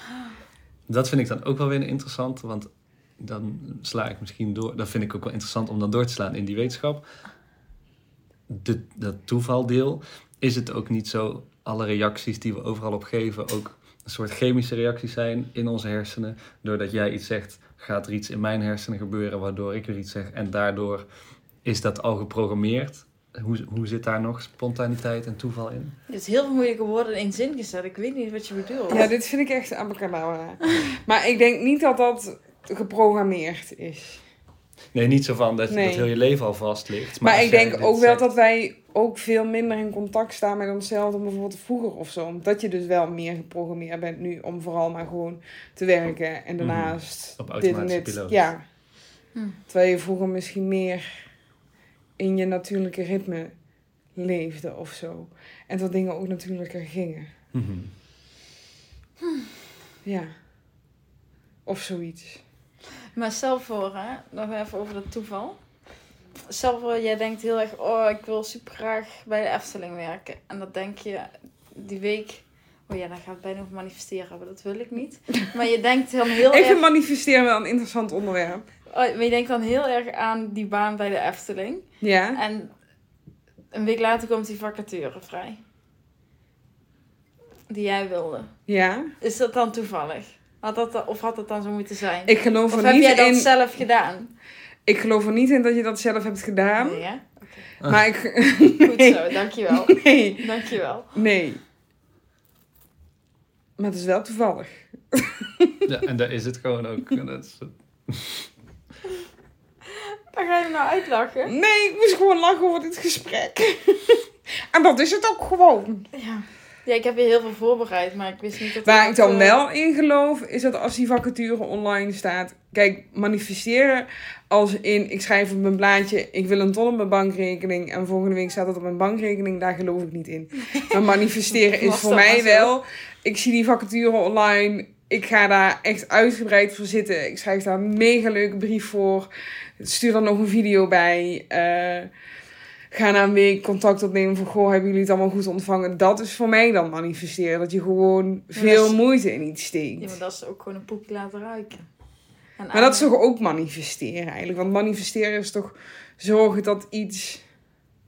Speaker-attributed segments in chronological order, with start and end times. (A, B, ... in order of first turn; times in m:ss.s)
0:00.9-0:07.0 A
0:08.5-0:21.0 A
0:21.6-0:26.0 A
0:26.1-0:29.1 B
0:28.9-0:34.2 C
0:34.9-0:38.3 A
0:35.7-0:36.1 C
0:37.2-0:48.6 C
0:46.6-0:48.4 A
0:49.7-0:51.1 C
0:52.2-0:53.5 C
0:54.2-0:57.3 C
0:57.5-0:57.9 A
1:00.0-1:00.3 C
1:01.6-1:02.4 C
1:03.1-1:05.6 B
1:06.5-1:16.8 B
1:16.5-1:18.6 C
1:18.9-1:22.7 B
1:22.0-1:22.4 C
1:23.7-1:25.6 B
1:27.7-1:28.5 B
1:28.7-1:29.1 C
1:29.2-1:34.3 B
1:32.3-1:33.5 C
1:34.8-1:37.0 C
1:36.8-1:37.7 B
1:37.8-1:40.4 C
1:38.8-1:41.1 B
1:41.1-1:41.6 C
1:43.8-1:45.9 C
1:45.8-1:48.5 A
1:49.9-1:51.5 B
1:51.5-1:56.1 C
1:56.1-1:59.6 B
1:58.8-2:22.1 C
2:10.7-2:11.0 B
2:11.5-2:12.7 B
2:22.9-2:30.2 C
2:28.5-2:29.0 B
2:30.0-2:31.8 B
2:32.6-2:33.1 B
2:32.7-2:37.4 C